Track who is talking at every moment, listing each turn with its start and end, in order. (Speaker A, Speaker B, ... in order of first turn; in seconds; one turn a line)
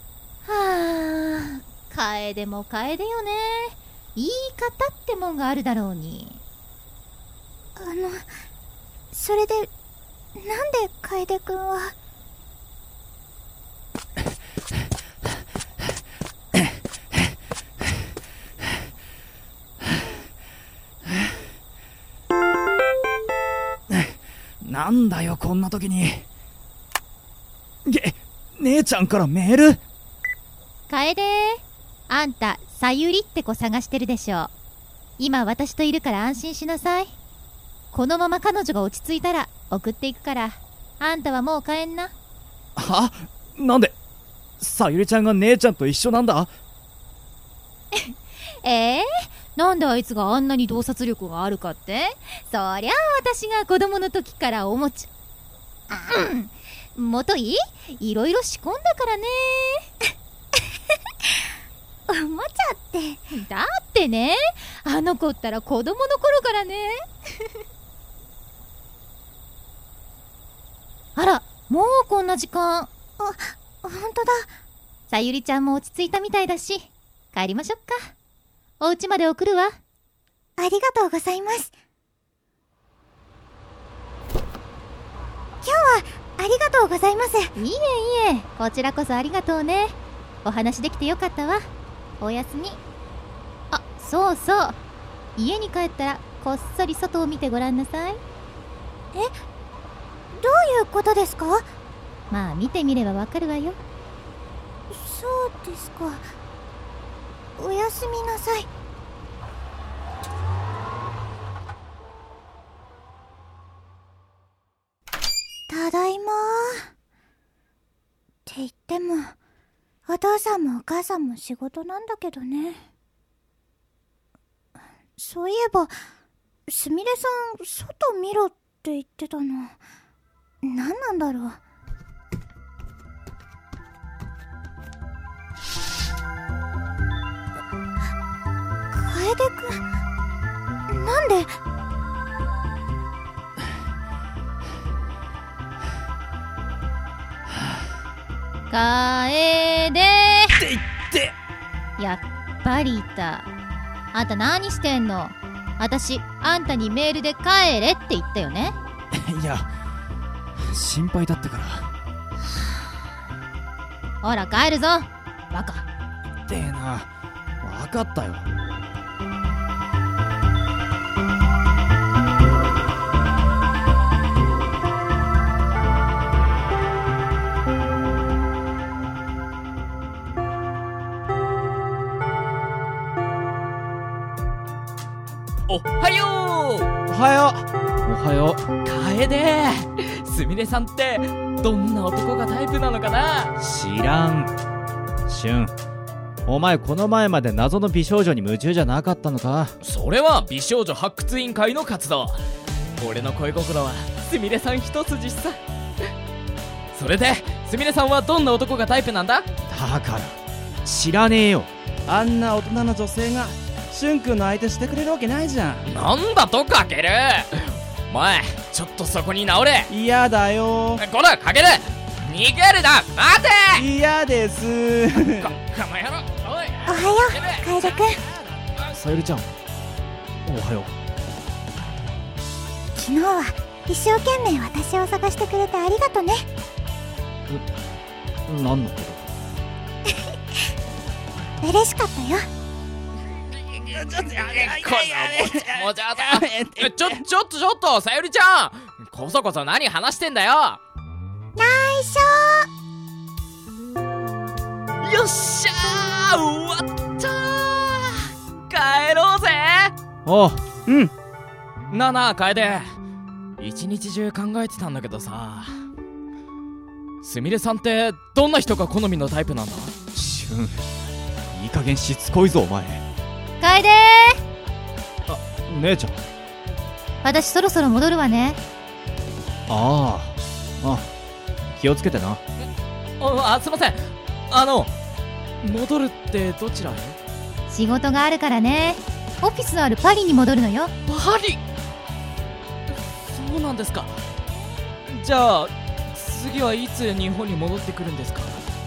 Speaker A: 0.5-6.4
Speaker B: 7.8-8.2
Speaker B: 9.1-9.7
Speaker B: 10.3-11.9
Speaker C: 16.5-17.3
Speaker C: 21.1-21.3
Speaker C: 23.9-26.3
Speaker C: 27.8-29.8
Speaker A: 30.9-34.5
Speaker A: 35.2-37.1
Speaker A: 37.9-42.1
Speaker C: 42.8-43.9
Speaker C: 44.6-46.5
Speaker A: 47.9-55.1
Speaker A: 55.9-59.9
Speaker B: 61.2-61.5
Speaker B: 62.1-63.2
Speaker A: 63.3-67.5
Speaker A: 71.2-72.9
Speaker B: 73.2-74.5
Speaker A: 75.1-78.1
Speaker A: 78.8-79.8
Speaker B: 80.6-81.7
Speaker B: 85.6-87.5
Speaker A: 87.6-91.6
Speaker A: 92.2-92.8
Speaker A: 93.7-94.8
Speaker A: 95.4-98.2
Speaker B: 100.3-101.7
Speaker A: 102.3-103.8
Speaker B: 104.9-106.2
Speaker B: 107.6-108.7
Speaker B: 115.7-116.9
Speaker B: 118.5-119.3
Speaker B: 120.1-122.8
Speaker B: 125.2-125.9
Speaker B: 126.7-129.8
Speaker B: 130.6-131.6
Speaker B: 138.9-139.8
Speaker B: 140.9-141.5
Speaker A: 148.7-150.6
Speaker C: 150.5-151.3
Speaker A: 152.0-153.5
Speaker A: 154.1-158.8
Speaker C: 159.1-159.7
Speaker C: 160.6-161.9
Speaker A: 164.2-165.8
Speaker C: 166.5-167.1
Speaker C: 167.6-168.5
Speaker D: 185.7-186.9
Speaker C: 187.1-188.7
Speaker D: 188.8-193.5
Speaker C: 193.6-194.5
Speaker C: 195.3-195.7
Speaker C: 196.4-199.8
Speaker D: 199.8-202.4
Speaker D: 203.0-205.6
Speaker D: 206.9-209.5
Speaker C: 209.7-211.7
Speaker E: 212.1-215.9
Speaker D: 215.8-219.9
Speaker E: 219.9-221.0
Speaker D: 221.0-223.8
Speaker E: 223.7-225.5
Speaker D: 225.4-227.7
Speaker B: 226.8-228.2
Speaker C: 228.9-229.5
Speaker C: 230.4-230.9
Speaker B: 232.9-236.4
Speaker C: 238.4-239.3
Speaker B: 240.1-240.7
Speaker B: 241.6-242.4
Speaker C: 243.9-247.2
Speaker D: 244.2-250.8
Speaker B: 251.6-252.7
Speaker D: 255.0-259.9
Speaker C: 260.2-260.6
Speaker D: 261.9-262.9
Speaker D: 263.6-265.8
Speaker D: 267.2-269.9
Speaker C: 270.1-270.8
Speaker C: 271.5-273.0
Speaker A: 273.6-274.4
Speaker C: 275.3-276.2
Speaker A: 277.2-278.6
Speaker C: 279.7-281.1
Speaker C: 281.8-282.4
Speaker D: 283.2-284.9
Speaker D: 285.6-287.2
Speaker A: 287.7-290.9
Speaker D: 291.1-291.6
Speaker D: 293.2-294.2
Speaker D: 295.1-298.6